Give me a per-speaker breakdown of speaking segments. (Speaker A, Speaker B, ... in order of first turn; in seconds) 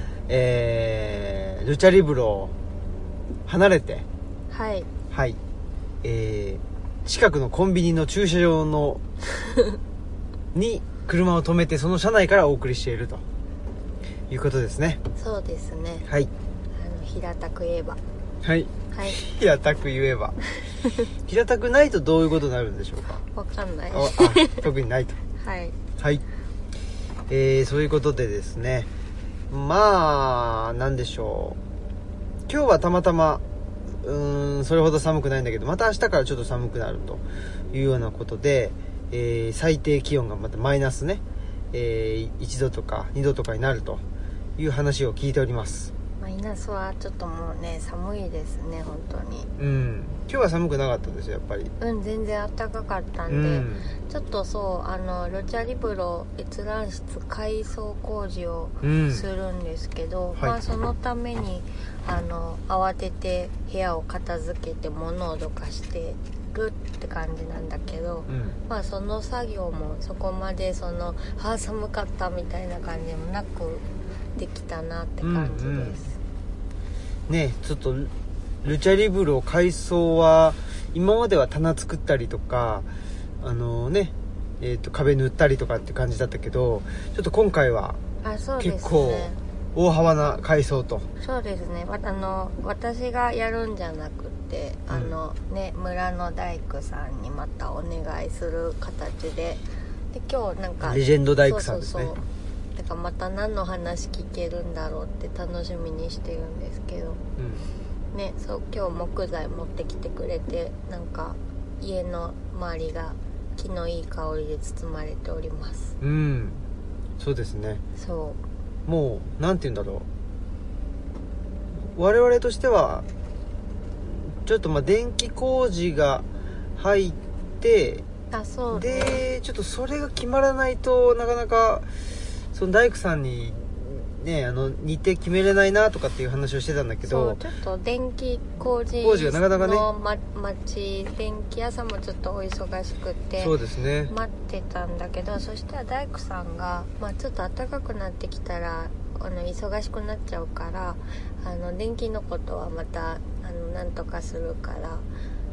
Speaker A: 0.3-2.5, 3.5-4.0, 5.1-5.4, 6.0-9.0, 10.5-13.2, 14.3-15.0, 16.0-16.3, 18.4-20.4, 21.2-23.2, 23.9-25.2, 26.0-26.2, 27.3-28.9, 29.5-31.6, 32.5-44.0, 44.6-45.9, 49.6-51.7, 53.3-54.0, 58.8-59.3, 68.3-68.6, 75.2-76.0, 77.3-78.1, 78.6-82.9, 83.4-88.0, 88.6-91.1, 94.9-95.2, 100.8-102.2, 107.4-107.7, 116.0-116.6, 117.2-117.8, 118.8-120.1, 121.9-123.0, 124.0-126.2, 126.8-128.0, 128.7-131.9, 132.5-137.4, 139.0-139.9, 143.4-144.1
Speaker B: 4.5-4.9, 9.4-9.8, 15.2-16.1, 16.7-18.0, 18.9-19.2, 23.3-24.6, 25.4-25.8, 46.2-49.5, 51.8-76.2, 88.2-89.4, 91.2-102.2, 102.7-107.2, 108.1-115.9, 118.0-118.4, 128.3-129.2, 137.0-143.5, 144.1-155.1